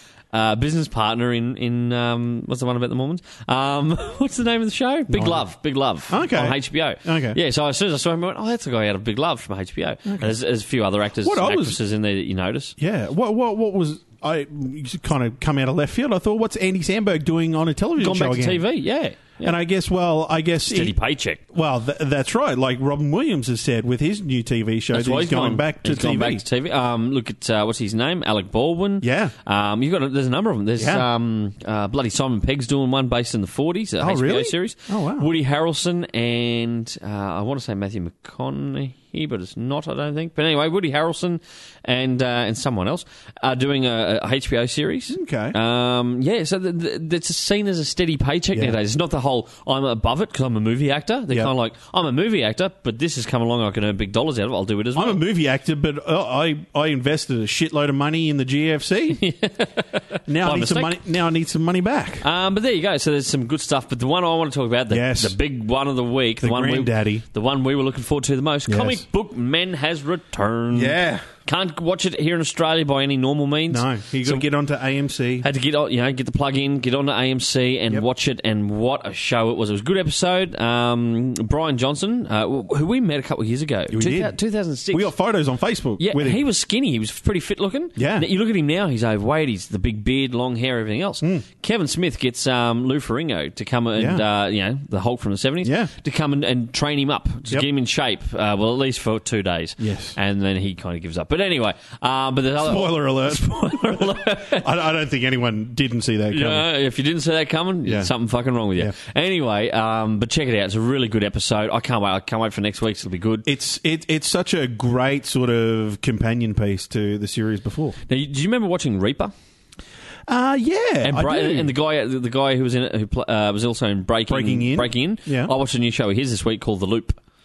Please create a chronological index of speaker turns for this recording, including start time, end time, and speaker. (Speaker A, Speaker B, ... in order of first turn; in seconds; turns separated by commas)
Speaker A: 0.3-12.8, Speaker B: 5.1-5.5, Speaker B: 6.1-7.4, Speaker B: 10.1-10.3, Speaker B: 11.2-11.8, Speaker B: 12.8-18.6, Speaker A: 18.0-19.5, Speaker B: 19.4-21.0, Speaker A: 20.7-21.4, Speaker B: 21.5-26.4, Speaker A: 24.9-55.2, Speaker B: 29.0-29.3, Speaker B: 30.8-31.1, Speaker B: 34.0-35.3, Speaker B: 45.1-45.5, Speaker B: 55.0-59.2, Speaker A: 59.1-61.0, Speaker B: 60.3-62.2, Speaker A: 62.2-74.4, Speaker B: 64.9-65.4, Speaker B: 66.4-67.2, Speaker B: 68.7-69.0, Speaker B: 70.7-71.3, Speaker B: 73.7-75.5, Speaker A: 75.4-85.1, Speaker B: 83.9-84.4, Speaker B: 84.9-86.4, Speaker A: 86.0-104.7, Speaker B: 88.0-88.3, Speaker B: 94.0-94.2, Speaker B: 95.6-95.9, Speaker B: 99.8-100.2, Speaker B: 102.6-106.7, Speaker A: 106.3-113.5, Speaker B: 107.9-108.1, Speaker B: 113.5-118.0, Speaker A: 118.1-119.3, Speaker B: 120.3-121.7, Speaker A: 121.0-127.2, Speaker B: 124.3-125.5